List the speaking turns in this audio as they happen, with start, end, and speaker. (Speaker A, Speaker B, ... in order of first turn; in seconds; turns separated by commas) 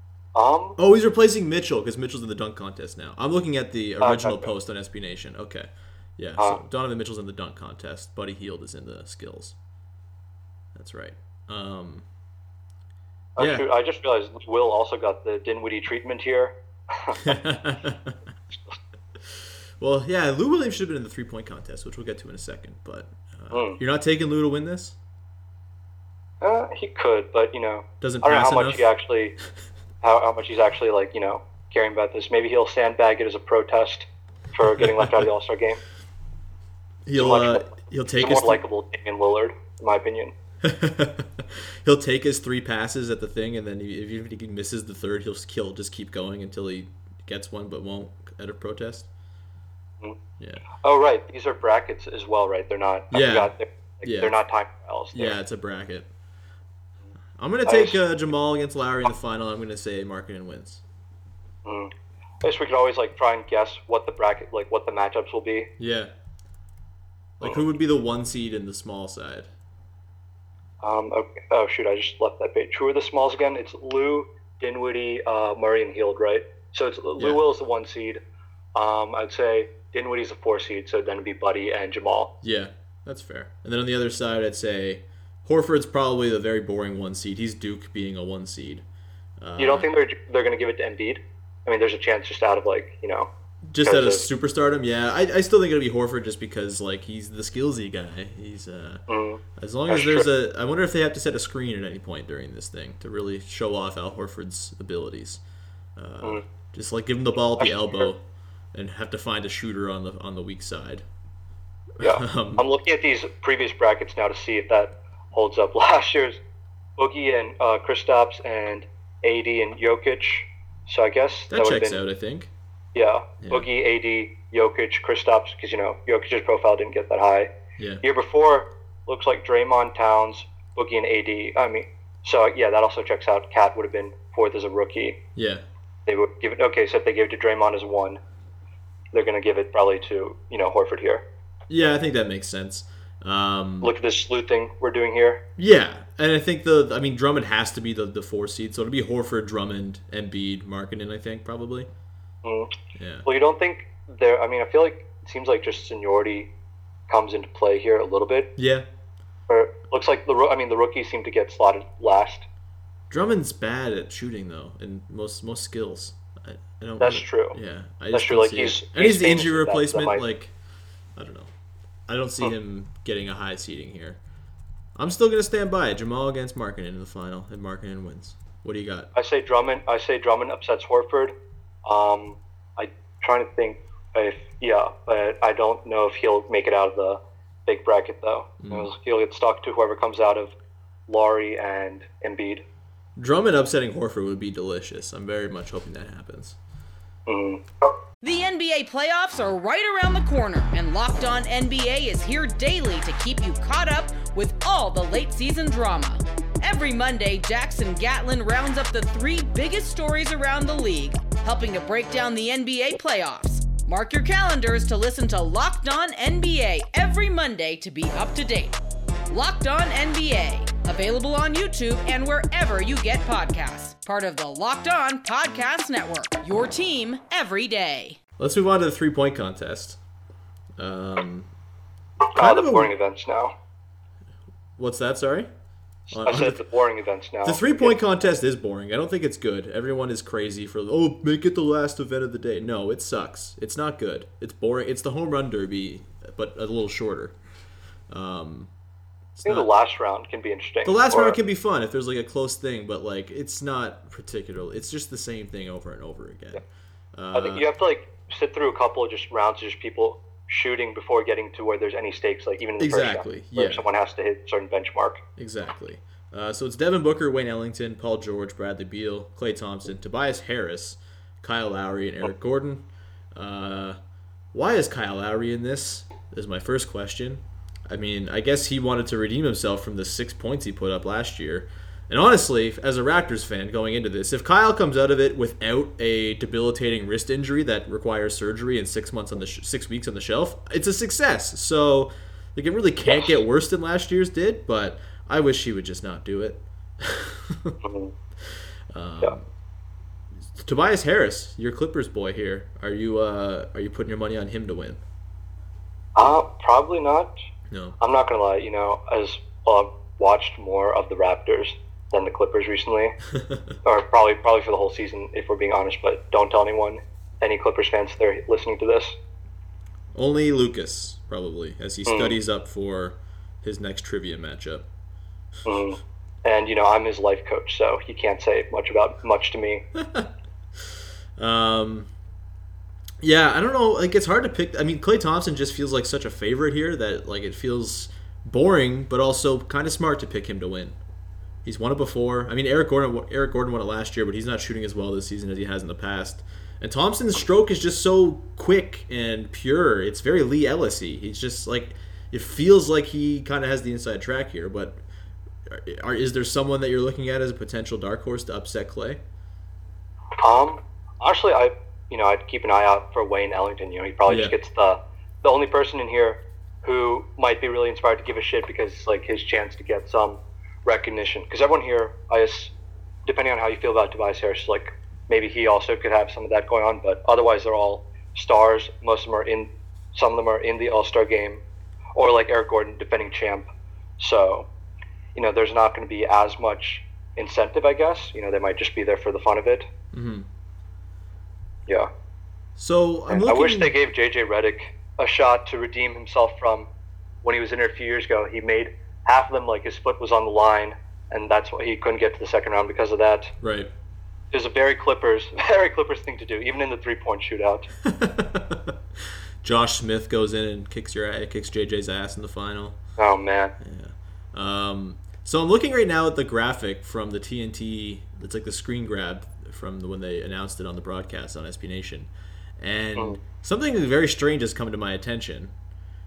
Speaker A: 0.3-0.8, Speaker B: 0.8-9.5, Speaker A: 4.0-4.5, Speaker B: 10.7-12.0, Speaker A: 13.4-17.3, Speaker B: 13.4-13.6, Speaker B: 17.2-18.1, Speaker B: 19.8-24.9, Speaker A: 23.5-23.8, Speaker A: 26.4-29.3, Speaker B: 28.0-28.9, Speaker A: 30.0-35.8, Speaker B: 34.6-35.2, Speaker B: 37.0-38.6, Speaker A: 37.1-40.3, Speaker B: 40.6-49.1, Speaker A: 50.8-55.3, Speaker B: 53.1-53.5, Speaker B: 54.0-54.4, Speaker B: 55.1-56.1, Speaker B: 57.4-60.8, Speaker A: 57.6-58.0, Speaker A: 61.6-61.9, Speaker A: 62.4-65.7, Speaker B: 65.8-66.1, Speaker B: 67.4-69.5, Speaker A: 70.8-78.2, Speaker A: 78.7-82.3, Speaker B: 82.4-88.8, Speaker B: 89.4-89.9, Speaker A: 89.6-93.3, Speaker B: 93.7-99.0, Speaker A: 93.8-94.3, Speaker A: 99.1-100.3, Speaker B: 99.6-105.4, Speaker B: 106.0-108.2, Speaker A: 107.6-108.1, Speaker B: 108.7-111.0, Speaker B: 112.0-112.6, Speaker A: 112.0-116.4, Speaker A: 117.0-122.0, Speaker B: 121.5-122.5, Speaker A: 122.9-135.2, Speaker B: 127.8-128.0, Speaker B: 135.3-135.6, Speaker A: 136.1-138.2, Speaker A: 139.1-141.2, Speaker B: 141.7-143.9, Speaker A: 143.8-145.4, Speaker B: 145.6-151.9, Speaker A: 152.4-152.7, Speaker B: 152.9-153.3, Speaker A: 153.2-156.5, Speaker A: 157.1-158.5, Speaker B: 158.6-158.8, Speaker A: 159.5-162.4, Speaker B: 163.1-170.5, Speaker A: 167.0-167.6, Speaker A: 168.1-170.2, Speaker B: 171.2-171.5, Speaker B: 172.1-174.2, Speaker B: 174.9-179.1, Speaker A: 179.1-190.5, Speaker B: 188.6-188.9, Speaker A: 191.1-192.6, Speaker B: 193.2-196.6, Speaker A: 197.3-197.6, Speaker C: 198.2-218.7, Speaker C: 219.3-228.2, Speaker B: 228.4-230.0, Speaker B: 230.8-231.5, Speaker A: 232.3-233.5, Speaker B: 232.3-232.9, Speaker B: 234.8-235.5, Speaker B: 236.1-236.6, Speaker A: 236.2-238.0, Speaker B: 237.4-247.3, Speaker B: 248.1-248.7, Speaker B: 249.3-249.7, Speaker A: 249.4-251.4, Speaker B: 250.8-256.6, Speaker B: 257.1-257.6, Speaker A: 257.3-265.2, Speaker B: 262.8-263.8, Speaker B: 265.4-274.0, Speaker B: 274.5-297.8, Speaker A: 293.1-293.3, Speaker A: 297.8-298.1, Speaker B: 298.9-299.4, Speaker B: 300.6-305.0, Speaker A: 306.2-307.3, Speaker B: 307.7-308.0, Speaker A: 308.0-313.1, Speaker B: 313.4-313.6, Speaker A: 313.8-319.2, Speaker B: 320.1-324.8, Speaker A: 322.1-322.4, Speaker A: 325.6-329.8, Speaker B: 329.9-330.3, Speaker B: 331.4-332.1, Speaker B: 333.2-341.0, Speaker B: 341.6-355.0, Speaker B: 355.7-359.2, Speaker A: 360.4-372.7, Speaker B: 364.3-364.5, Speaker A: 373.2-381.6, Speaker A: 382.1-383.7, Speaker A: 384.2-384.7, Speaker A: 385.3-389.9, Speaker B: 390.1-390.5, Speaker B: 392.8-393.9, Speaker A: 393.3-396.9, Speaker A: 397.4-403.5, Speaker B: 403.6-403.9, Speaker A: 404.5-407.9, Speaker B: 408.0-408.9, Speaker B: 409.6-413.0, Speaker A: 413.2-413.7, Speaker B: 413.8-425.7